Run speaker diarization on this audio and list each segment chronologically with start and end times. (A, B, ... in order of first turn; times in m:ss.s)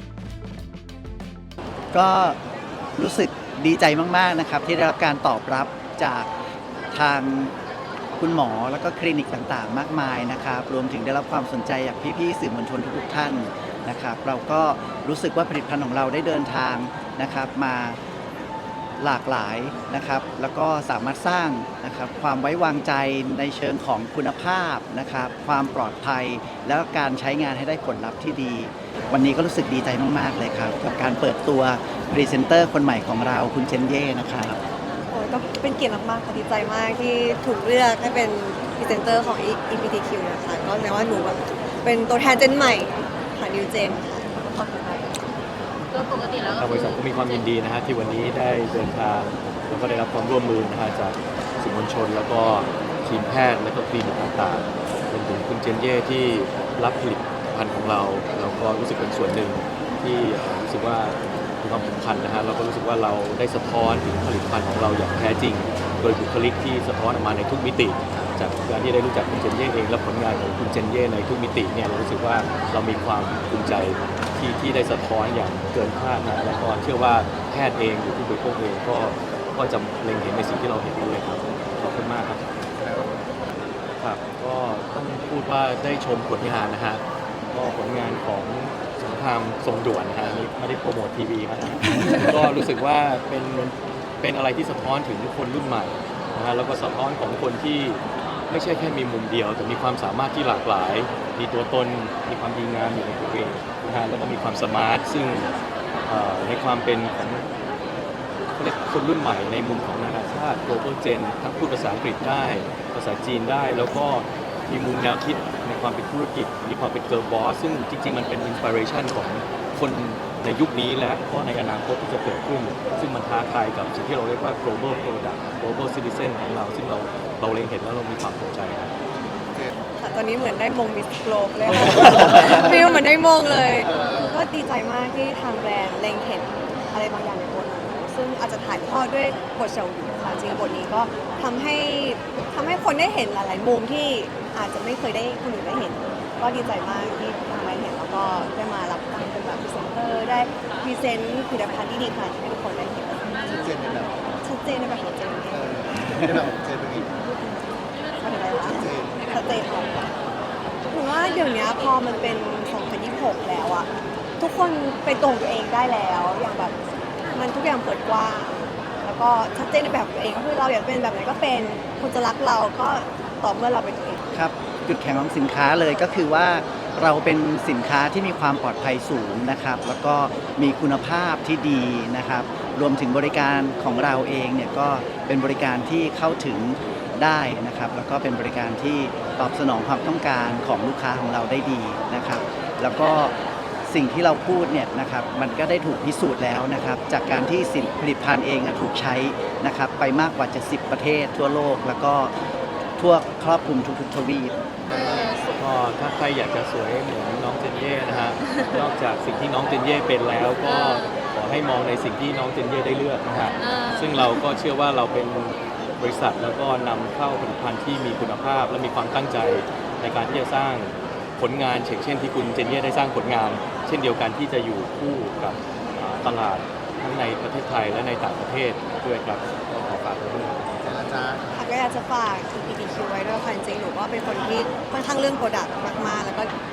0:01.9-0:02.4 A
0:03.0-0:06.3 A
0:06.9-0:07.5 A
0:08.2-0:18.0 A
0:19.0-0:34.6 A
0:35.1-0:45.1 B
0:45.9-0:47.0 C
0:46.5-1:22.4 D
1:24.0-1:45.5 D
1:46.0-1:47.5 D
1:48.6-2:08.9 D
2:10.0-2:33.2 B
2:33.5-2:34.2 E
2:34.4-2:35.8 B
2:35.7-2:37.1 E
2:38.2-2:40.1 B
2:40.9-2:46.8 B
2:47.3-2:54.2 B
2:54.3-3:13.3 A
3:13.9-3:22.3 A
3:23.0-3:24.5 A
3:24.9-3:25.5 C
3:25.6-3:50.7 D
3:33.6-3:34.1 C
3:50.9-3:51.4 E
3:51.5-3:56.5 B